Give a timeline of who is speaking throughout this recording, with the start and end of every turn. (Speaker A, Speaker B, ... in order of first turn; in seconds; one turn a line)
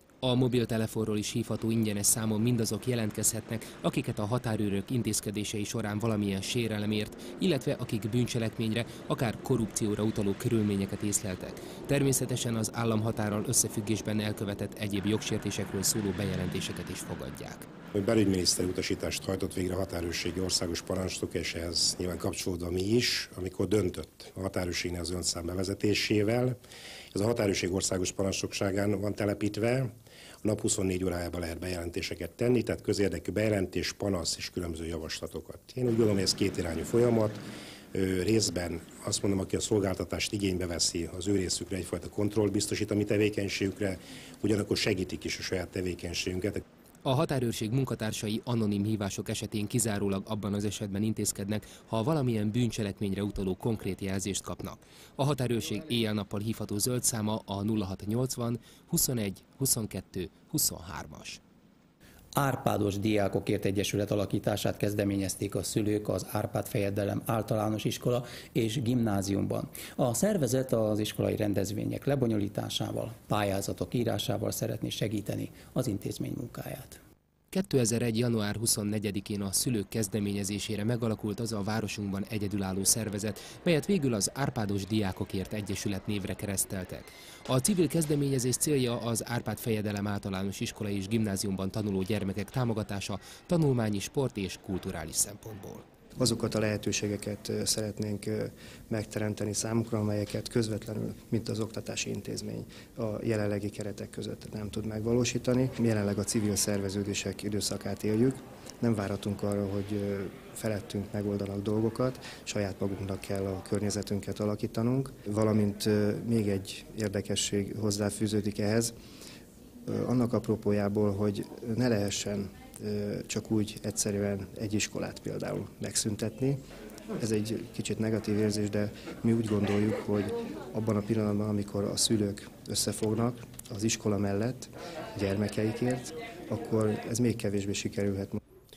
Speaker A: 0.2-17.7
Speaker B: 17.9-26.6
Speaker B: 27.1-37.4
Speaker B: 37.9-46.6
Speaker A: 47.0-61.4
Speaker C: 62.4-77.0
Speaker A: 77.5-95.8
Speaker D: 96.2-118.9
Speaker D: 119.9-126.6
Speaker D: 127.2-138.4